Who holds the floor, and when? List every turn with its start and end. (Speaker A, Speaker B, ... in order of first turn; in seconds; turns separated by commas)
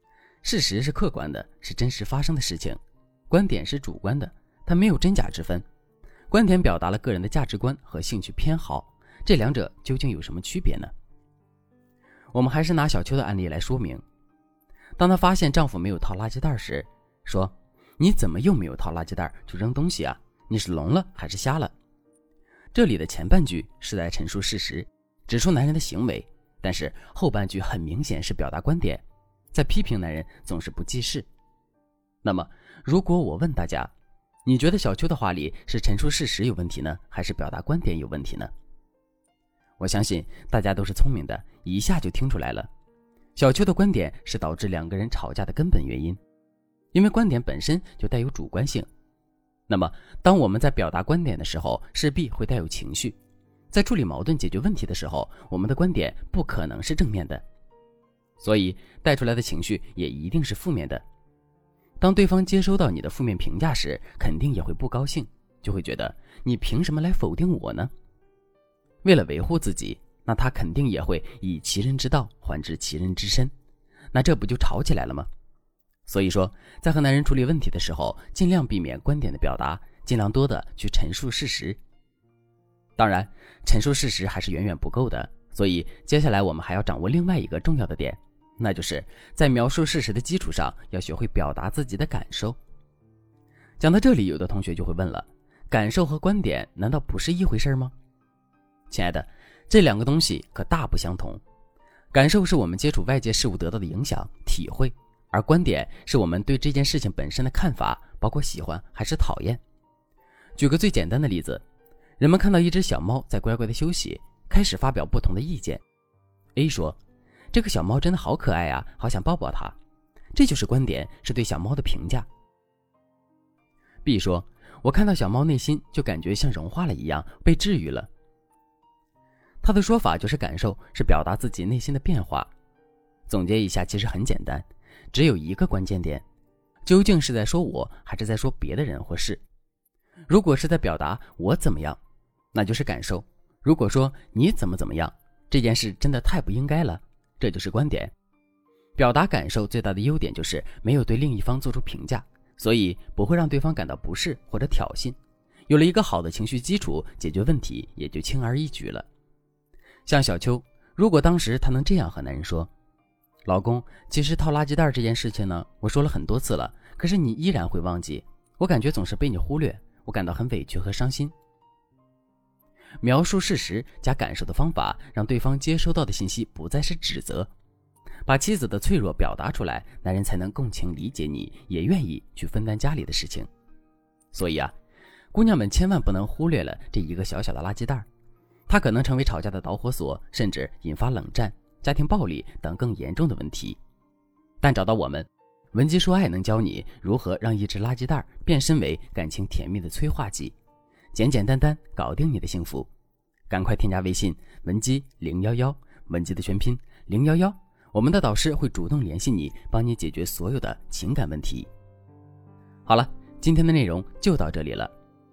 Speaker A: 0.4-5.6, Speaker A: 6.3-10.9, Speaker A: 12.3-14.0, Speaker A: 15.0-21.7, Speaker A: 22.7-31.3, Speaker A: 32.2-33.9, Speaker A: 34.5-38.5, Speaker A: 39.8-42.7, Speaker A: 43.4-46.2, Speaker A: 46.9-48.9, Speaker A: 49.7-53.2, Speaker A: 53.7-57.4, Speaker A: 58.4-61.0, Speaker A: 62.0-67.9, Speaker A: 69.0-73.5, Speaker A: 74.1-75.3, Speaker A: 76.0-81.8, Speaker A: 83.0-92.6, Speaker A: 93.8-97.9, Speaker A: 98.9-101.4, Speaker A: 102.1-109.6, Speaker A: 110.6-111.6, Speaker A: 112.2-115.8, Speaker A: 116.5-117.0, Speaker A: 117.5-119.8, Speaker A: 120.3-122.3, Speaker A: 124.0-128.1, Speaker A: 129.6-132.5, Speaker A: 133.3-136.2, Speaker A: 136.8-139.4, Speaker A: 140.3-142.0, Speaker A: 142.5-148.1, Speaker A: 149.0-155.2, Speaker A: 155.7-159.1, Speaker A: 160.1-162.7, Speaker A: 163.4-171.3, Speaker A: 173.0-177.5, Speaker A: 178.2-183.5, Speaker A: 184.3-184.7, Speaker A: 185.3-188.1, Speaker A: 188.7-193.8, Speaker A: 194.6-200.5, Speaker A: 201.1-202.9, Speaker A: 203.5-211.7, Speaker A: 212.8-214.9